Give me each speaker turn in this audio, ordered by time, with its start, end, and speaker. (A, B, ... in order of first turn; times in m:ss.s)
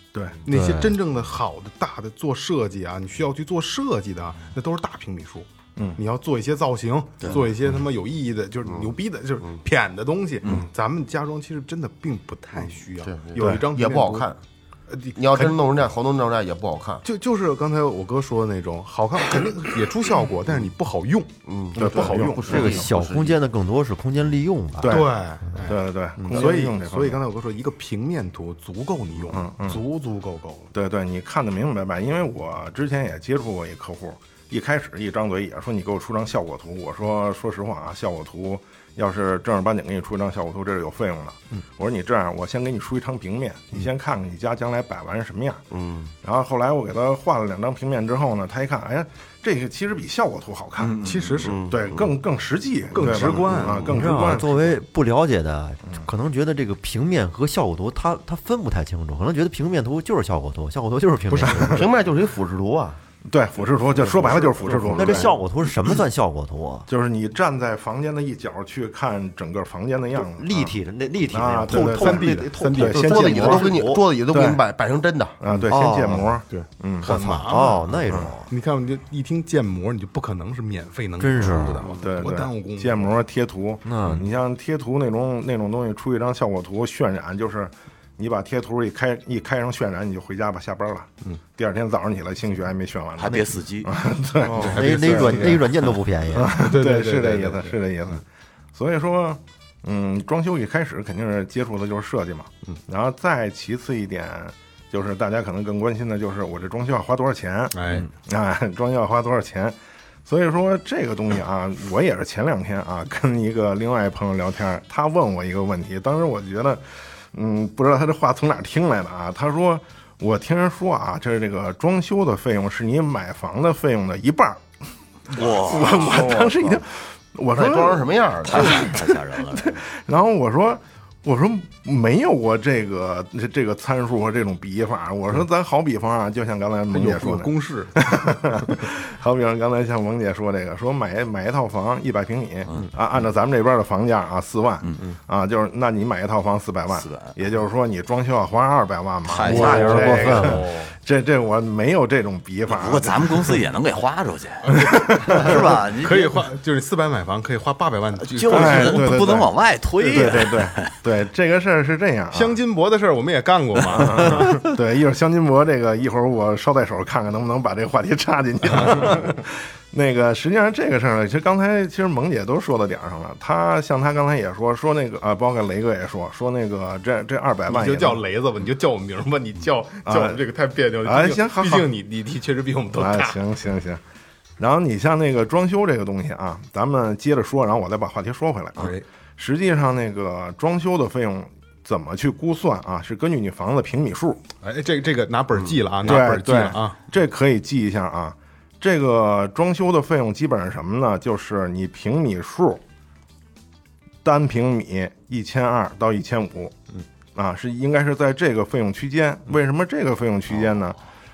0:00.1-0:00.4 A
0:00.4-0:14.3 B
0:00.5-0:00.9 C
0:13.0-0:14.4 D
0:14.9-0:15.6 B
0:15.1-0:17.0 D
0:17.0-0:22.8 B
0:21.4-0:23.4 D
0:21.8-0:22.8 A
0:22.4-0:25.0 C
0:24.8-0:25.1 A
0:24.8-0:30.7 B
0:25.6-0:27.2 A
0:29.3-0:29.8 A
0:30.7-0:45.6 A
0:45.7-0:46.1 D
0:46.2-0:51.1 A
0:50.8-0:51.4 E
0:51.0-0:51.6 B
0:51.4-0:52.1 D
0:51.6-0:54.8 A
0:52.9-0:54.0 B
0:53.8-1:01.9 C
1:01.4-1:03.0 D
1:03.3-1:05.4 A
1:03.9-1:05.4 D
1:04.8-1:06.9 C
1:06.9-1:10.8 A
1:10.2-1:14.0 C
1:11.3-1:13.7 A
1:11.7-1:13.2 B
1:12.8-1:15.4 D
1:14.3-1:14.6 A
1:15.4-1:17.3 A
1:15.6-1:16.4 C
1:16.5-1:23.1 B
1:17.0-1:18.5 C
1:21.2-1:22.0 C
1:22.0-1:35.7 A
1:23.8-1:24.3 C
1:33.2-1:33.9 E
1:34.4-1:35.6 B
1:34.5-1:36.6 C
1:36.3-1:38.2 A
1:36.4-1:38.2 B
1:38.7-2:04.6 A
1:47.7-1:48.1 B
2:05.3-2:33.6 A
2:05.3-2:06.3 E
2:05.6-2:06.8 D
2:07.5-2:09.0 D
2:08.5-2:09.8 E
2:16.9-2:18.8 B
2:26.9-2:27.3 E
2:29.2-2:30.6 E
2:29.4-2:30.8 B
2:29.5-2:30.7 C
2:32.7-2:36.4 E
2:34.6-2:39.2 B
2:34.9-2:35.5 A
2:38.2-2:40.9 E
2:38.5-2:42.6 A
2:42.3-2:44.6 B
2:43.9-2:58.2 A
2:57.7-3:03.4 B
3:00.0-3:00.4 A
3:01.0-3:01.9 A
3:02.9-3:04.0 A
3:04.6-3:14.4 A
3:08.8-3:09.0 B
3:14.6-3:17.0 B
3:16.0-3:22.8 A
3:24.2-3:26.7 A
3:27.3-3:31.0 A